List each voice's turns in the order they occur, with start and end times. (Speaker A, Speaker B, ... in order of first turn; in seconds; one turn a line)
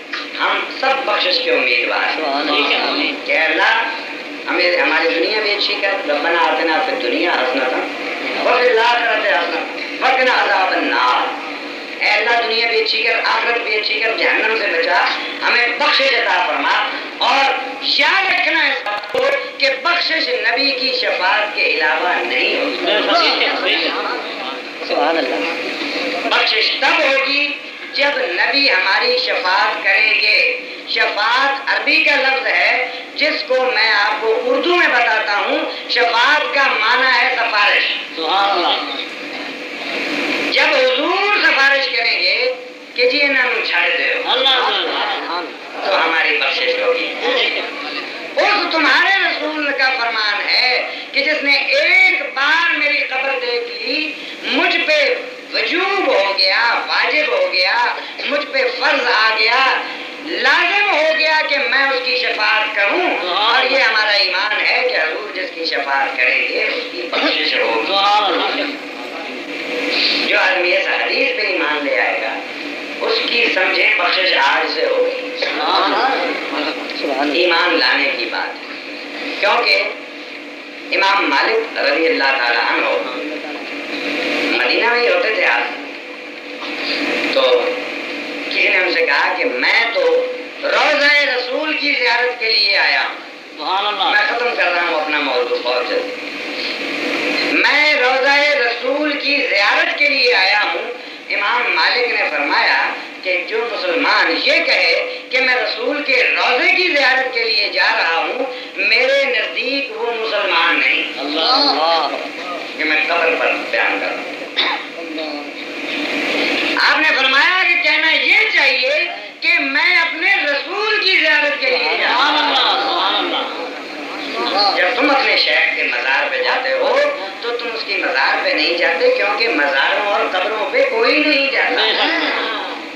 Speaker A: 0.4-3.9
Speaker B: 2.4-3.0
Speaker A: 4.5-11.4
Speaker A: 12.0-23.3
Speaker B: 23.1-24.0
Speaker B: 24.8-25.5
Speaker A: 26.2-38.1
Speaker B: 38.2-38.9
Speaker A: 40.5-44.7
Speaker B: 44.6-45.3
Speaker A: 45.7-47.6
Speaker A: 48.4-68.4
Speaker B: 68.3-68.7
Speaker A: 70.1-72.4
Speaker A: 73.0-75.9
Speaker A: 77.2-78.6
Speaker A: 79.4-80.0
Speaker A: 80.9-83.2
Speaker A: 84.5-85.8
Speaker A: 87.3-87.8
Speaker A: 88.5-93.2
Speaker B: 93.6-94.0
Speaker A: 93.9-96.2
Speaker A: 97.5-111.6
Speaker B: 111.3-112.1
Speaker A: 112.8-114.3
Speaker A: 116.8-122.8
Speaker B: 122.7-123.6
Speaker A: 124.5-132.4